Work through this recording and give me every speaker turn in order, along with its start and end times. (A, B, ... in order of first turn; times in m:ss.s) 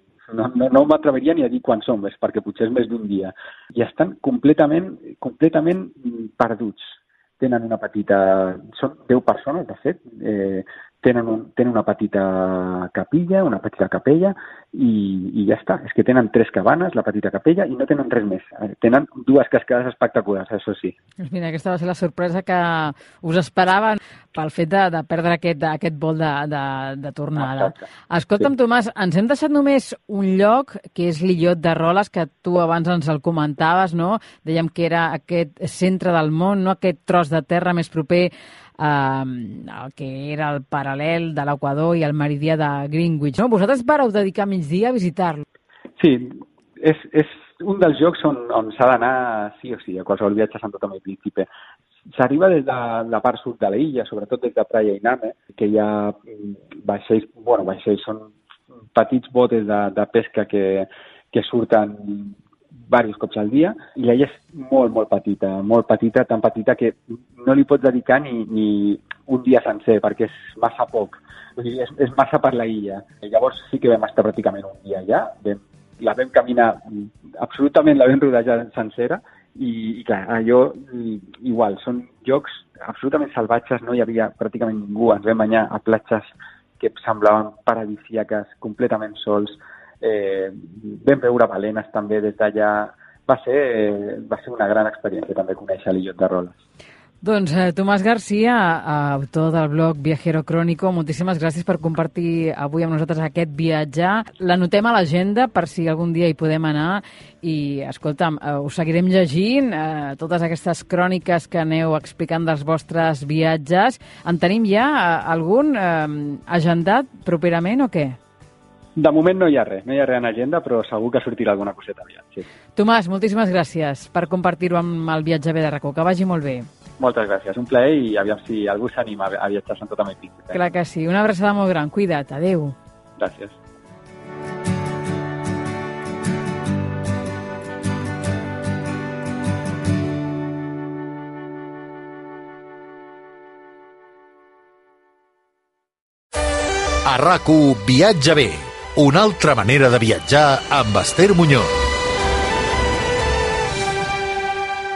0:00.3-0:21.0 A
0:21.2-0:45.4 B
0:27.4-0:27.8 A
0:46.0-0:51.5 A
0:52.1-0:58.3 A
0:58.9-1:02.4 A
1:02.9-1:36.6 A
1:37.2-1:58.2 B
1:59.0-2:02.4 A
2:02.8-2:06.7 B
2:07.0-2:10.6 A
2:10.5-2:12.8 B
2:13.2-2:13.6 A
2:27.0-2:31.7 C